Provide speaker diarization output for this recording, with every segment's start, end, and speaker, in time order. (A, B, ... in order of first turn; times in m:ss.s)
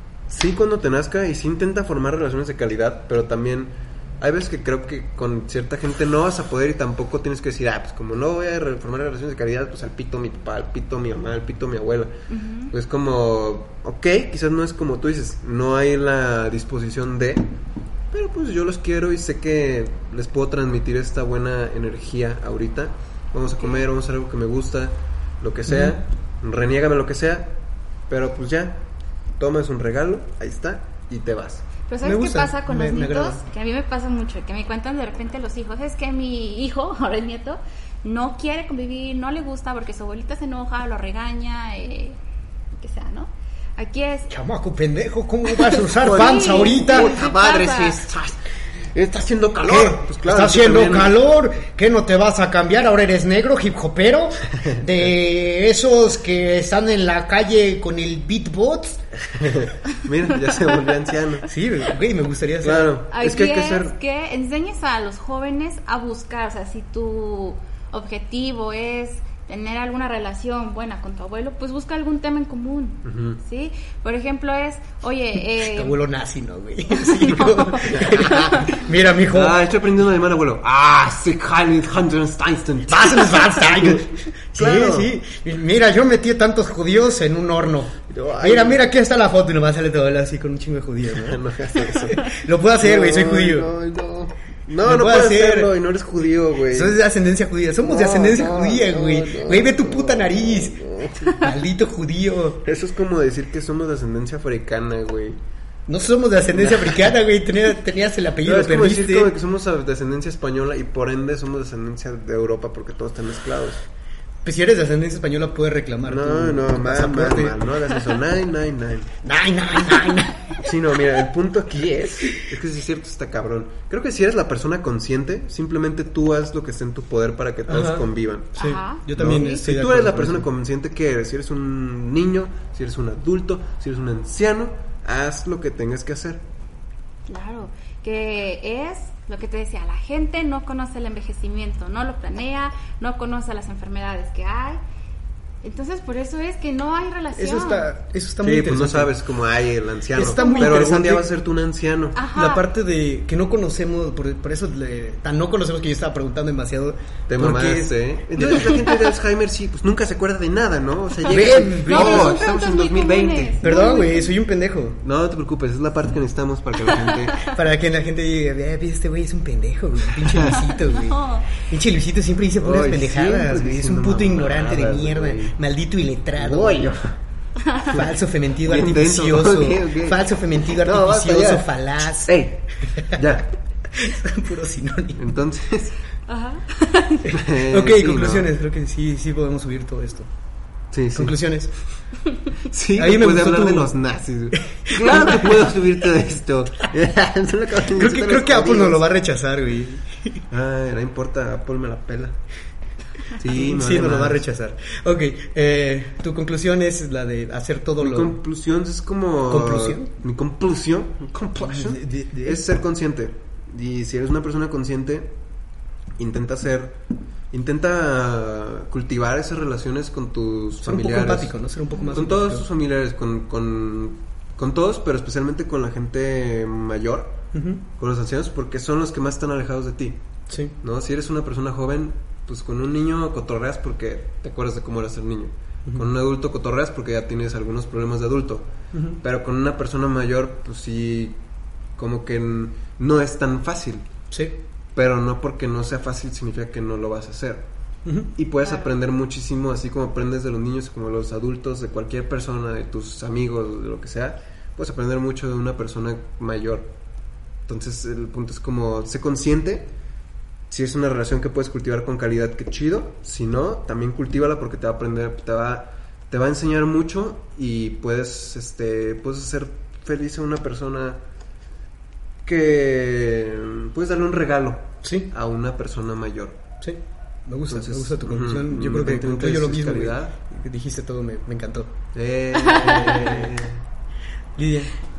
0:00.3-0:12.1 A
0:12.3-0:12.7 B
0:12.7-0:17.5 A
0:18.1-0:27.6 A
0:23.6-0:23.8 B
0:25.7-0:26.0 C
0:28.1-0:28.8 A
0:29.4-0:31.7 A
0:31.9-0:42.2 B
0:32.0-0:33.4 C
0:42.8-0:44.3 B
0:44.3-0:47.1 C
0:45.5-0:48.0 B
0:46.0-0:48.4 A
0:48.9-0:51.2 A
0:49.7-0:59.0 C
0:59.2-1:01.5 A
1:01.5-1:03.0 C
1:02.6-1:03.9 A
1:03.1-1:16.0 B
1:13.0-1:13.4 A
1:15.5-1:19.6 C
1:16.9-1:18.8 B
1:18.0-1:18.4 A
1:19.3-1:25.1 A
1:22.9-1:33.7 C
1:28.1-1:28.9 A
1:31.1-1:37.0 A
1:34.8-1:35.7 C
1:36.7-1:42.6 C
1:37.8-1:41.3 A
1:42.6-1:45.4 A
1:45.9-1:49.4 C
1:46.5-1:47.1 A
1:48.4-1:53.8 A
1:54.4-1:58.0 C
1:56.1-1:59.1 A
1:59.2-2:00.7 C
2:00.6-2:08.6 A
2:07.7-2:10.5 C
2:08.6-2:09.6 B
2:09.2-2:16.4 A
2:17.3-2:24.8 B
2:25.6-2:27.9 B
2:27.4-2:29.1 C
2:28.4-2:32.2 A
2:30.2-2:31.2 C
2:30.4-2:30.8 B
2:32.2-2:32.6 B
2:32.3-2:38.8 C
2:37.3-2:43.6 A
2:41.3-2:44.4 B
2:41.3-2:42.4 C
2:43.6-2:45.0 C
2:45.0-2:47.5 A
2:46.9-2:47.6 B
2:47.4-2:57.0 C
2:50.2-2:50.6 A
2:50.6-2:51.5 B
2:52.6-2:55.6 A
2:56.4-2:57.2 A
2:57.8-3:02.4 C
2:58.6-3:03.5 A
3:03.9-3:05.2 C
3:05.2-3:06.0 A
3:06.3-3:07.4 B
3:07.3-3:08.5 A
3:07.5-3:10.3 C
3:10.9-3:11.4 A
3:11.2-3:11.7 C
3:12.7-3:19.0 A
3:13.0-3:13.9 C
3:14.7-3:15.6 C
3:17.9-3:20.4 C
3:20.5-3:22.4 A
3:23.3-3:24.4 A
3:23.4-3:28.4 C
3:28.0-3:35.4 A
3:29.5-3:30.1 C
3:31.6-3:32.6 C
3:36.2-3:37.0 A
3:37.5-3:41.5 A
3:40.8-3:42.7 C
3:41.9-3:42.2 B
3:42.1-3:47.4 A
3:47.5-3:47.8 C
3:48.0-3:50.2 A
3:50.5-3:50.8 C
3:50.8-4:01.4 A
3:58.9-3:59.2 C
4:02.0-4:04.1 A
4:04.3-4:04.6 C
4:05.0-4:07.7 A
4:08.0-4:08.3 C
4:08.4-4:16.9 A
4:08.6-4:08.9 B
4:17.7-4:19.9 A
4:20.7-4:31.2 A
4:32.4-4:36.6 A
4:35.0-4:35.3 C
4:36.8-4:42.0 C
4:37.7-4:40.4 A
4:42.1-4:43.8 A
4:42.6-4:43.3 B
4:42.8-4:43.6 C
4:44.6-4:44.9 C